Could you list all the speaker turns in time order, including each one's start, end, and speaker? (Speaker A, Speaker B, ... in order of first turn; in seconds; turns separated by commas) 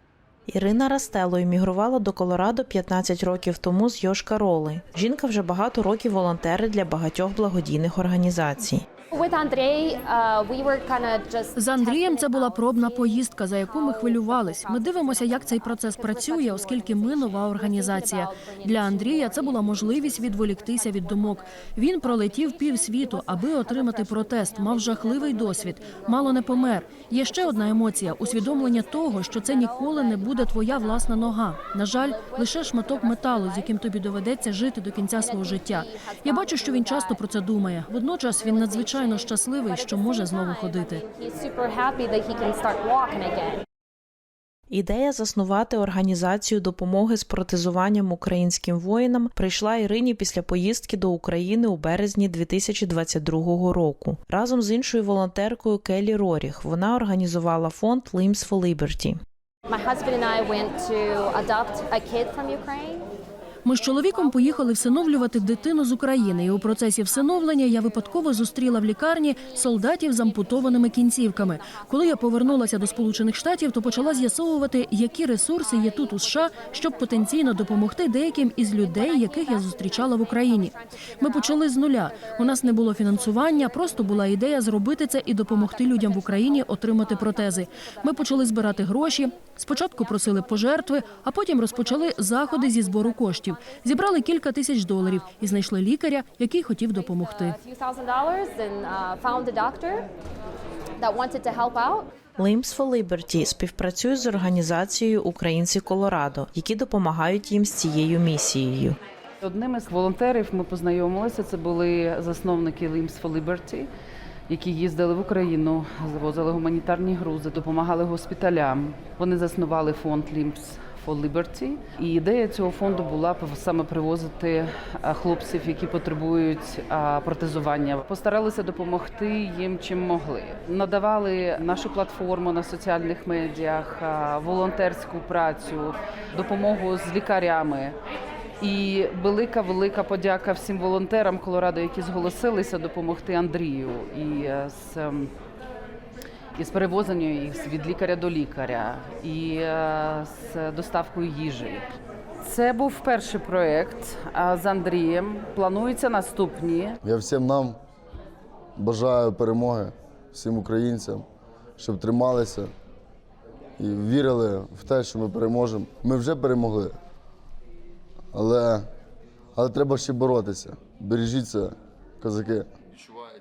Speaker A: 0.5-8.8, Speaker B: 9.1-34.1, Speaker C: 11.5-41.0, Speaker B: 35.1-37.4, Speaker B: 38.2-43.6, Speaker A: 44.7-59.2, Speaker B: 59.7-63.1, Speaker C: 63.6-97.6, Speaker B: 63.8-68.5, Speaker B: 69.3-74.7, Speaker B: 75.3-77.9, Speaker B: 78.4-84.6, Speaker B: 85.3-95.6, Speaker B: 96.8-100.1, Speaker B: 101.0-102.1, Speaker A: 102.4-109.0, Speaker D: 109.4-113.9, Speaker D: 114.5-137.9, Speaker D: 138.6-145.3, Speaker D: 146.6-151.9, Speaker D: 152.4-157.0, Speaker E: 157.0-157.8, Speaker E: 158.8-161.2, Speaker E: 161.8-162.7, Speaker E: 163.8-167.0, Speaker E: 168.3-168.8, Speaker E: 169.6-173.1